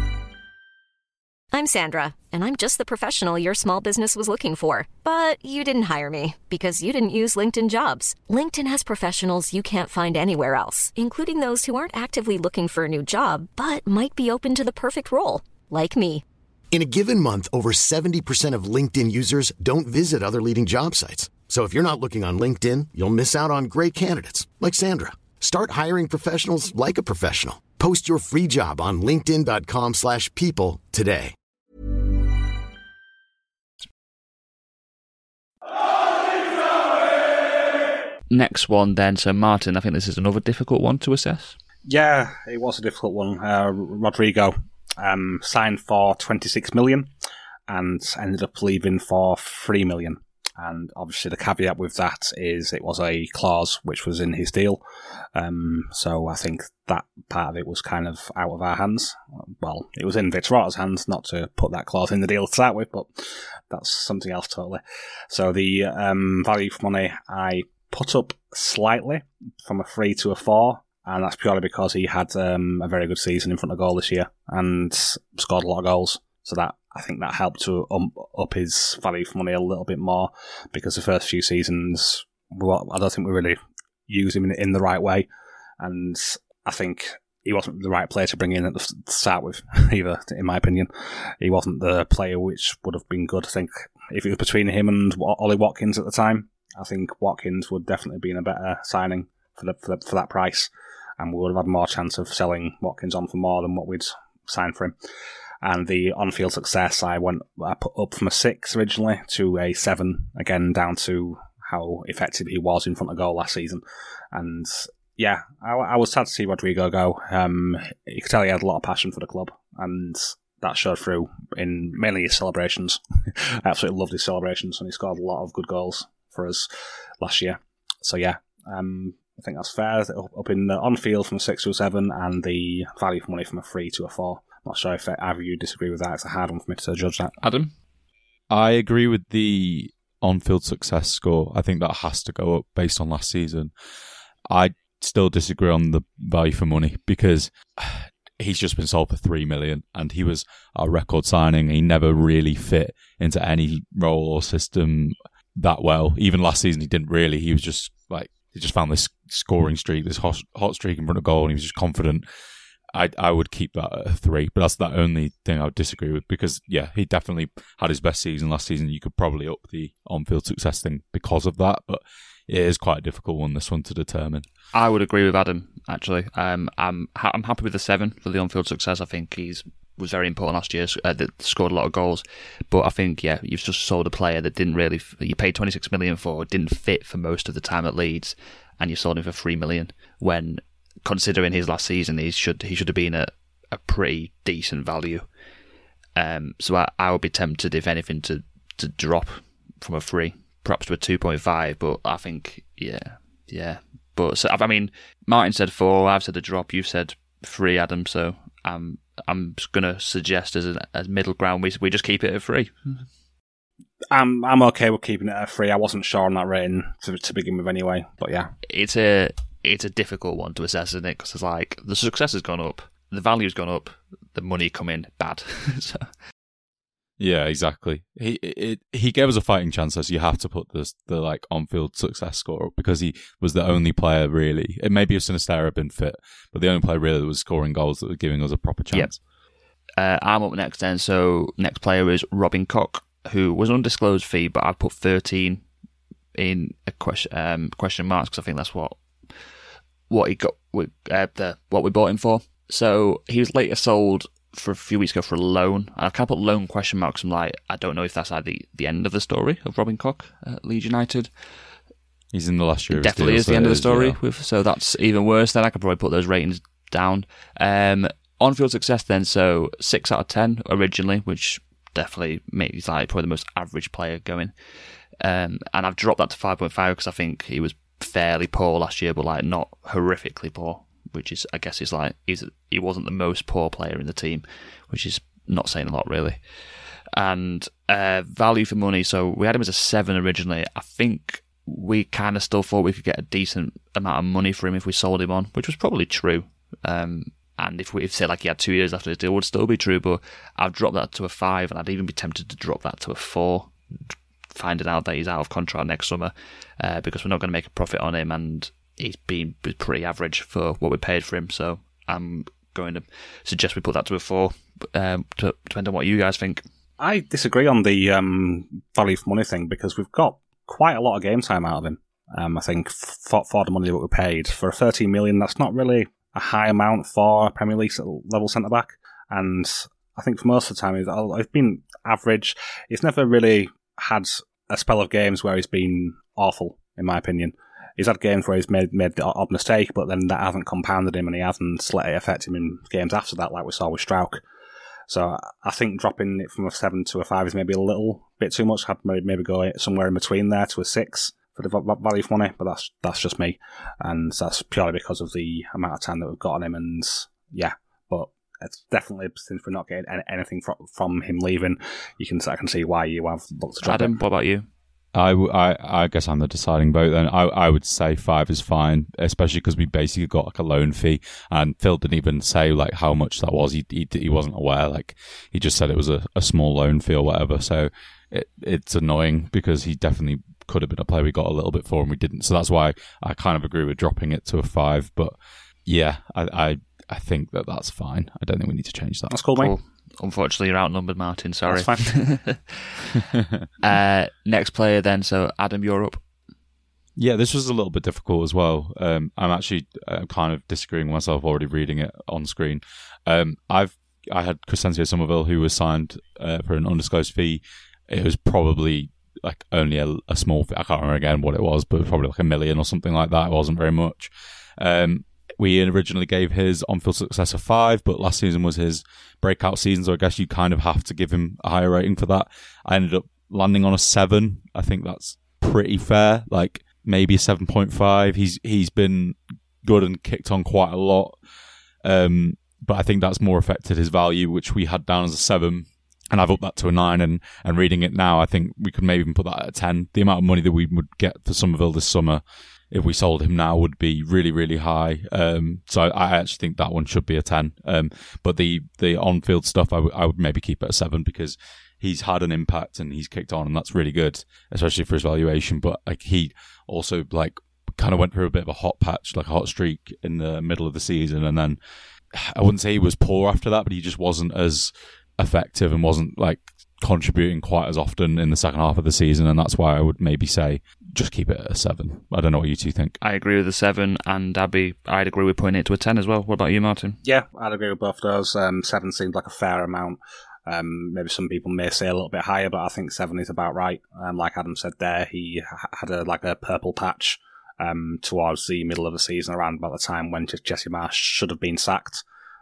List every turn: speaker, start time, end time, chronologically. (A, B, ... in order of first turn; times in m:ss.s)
0:01.5-0:16.2 A
0:16.7-0:31.3 B
0:38.3-0:41.6 C
0:41.9-0:47.1 D
0:47.7-0:54.8 D
0:55.4-1:23.6 D
1:24.1-1:25.3 D
1:25.8-1:45.0 D
1:45.6-1:53.8 D
1:54.3-2:06.7 D
2:07.2-2:17.4 D
2:17.4-2:17.7 C
2:18.5-2:23.7 E
2:24.5-2:42.3 E
2:42.9-2:54.4 E
2:54.7-3:15.3 C
3:16.2-3:33.1 C
3:34.1-3:38.5 D
3:38.7-3:46.1 C
3:47.2-3:59.2 E
4:00.0-4:05.6 C
4:06.4-4:09.0 C
4:10.1-4:21.3 C
4:22.3-4:24.2 E
4:22.9-4:34.5 C
4:35.2-4:46.4 C
4:47.1-5:16.6 C
5:17.0-5:44.4 D
5:45.1-6:04.2 D
6:03.8-6:04.7 C
6:05.2-6:25.4 E
6:25.9-6:29.3 E
6:29.3-6:29.8 D
6:29.5-6:33.2 C
6:31.7-6:32.1 D
6:33.8-6:36.2 C
6:37.2-7:11.4 E
7:12.0-7:41.8 E
7:42.3-7:53.2 E
7:53.2-7:57.2 C
7:57.2-8:12.2 D